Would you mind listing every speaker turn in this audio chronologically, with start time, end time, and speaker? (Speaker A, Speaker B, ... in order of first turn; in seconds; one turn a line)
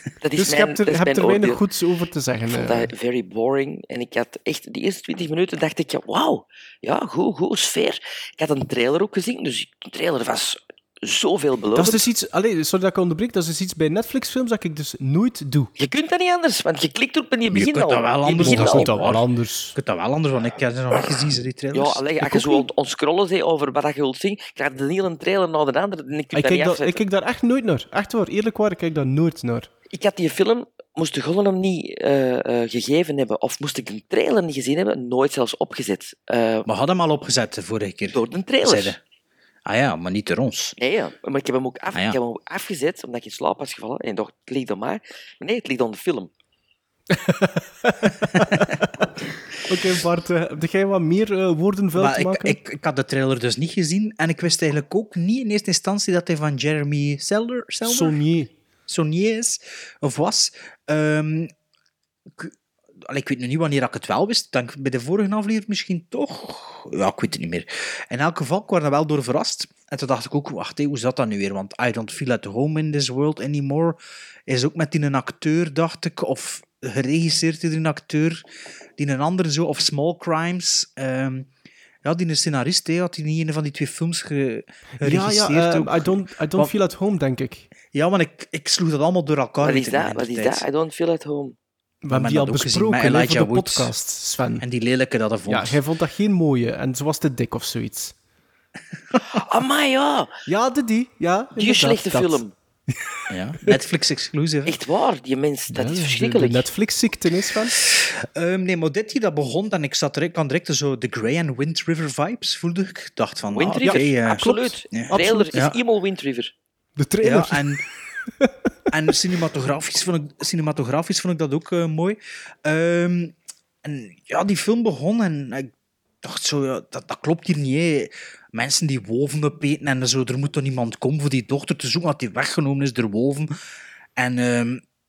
Speaker A: 0.2-1.6
Speaker B: 0.4-2.9
Speaker A: 2.5-12.0
Speaker B: 11.8-15.7
Speaker A: 15.8-19.1
Speaker C: 17.5-19.2
Speaker B: 18.4-19.8
Speaker C: 19.8-22.6
Speaker A: 21.7-27.0
Speaker B: 26.3-29.7
Speaker A: 29.9-36.7
Speaker C: 36.6-39.0
Speaker A: 38.1-39.0
Speaker C: 39.6-40.8
Speaker A: 40.8-46.3
Speaker B: 47.1-48.9
Speaker B: 49.7-52.6
Speaker C: 51.9-58.2
Speaker B: 57.9-58.5
Speaker C: 58.9-61.5
Speaker C: 63.0-78.4
Speaker C: 79.0-81.5
Speaker C: 82.0-86.7
Speaker B: 85.0-87.7
Speaker C: 87.9-90.6
Speaker A: 89.6-91.6
Speaker B: 92.0-94.6
Speaker C: 92.1-93.9
Speaker C: 94.6-95.8
Speaker B: 95.5-98.1
Speaker A: 99.3-100.3
Speaker B: 100.5-102.9
Speaker A: 101.6-102.5
Speaker C: 103.3-104.8
Speaker A: 104.7-106.6
Speaker B: 105.7-107.8
Speaker C: 107.9-115.8
Speaker A: 113.5-116.5
Speaker B: 113.8-115.5
Speaker B: 117.0-117.8
Speaker C: 117.2-117.8
Speaker C: 118.9-125.7
Speaker C: 126.2-133.5
Speaker C: 134.2-134.8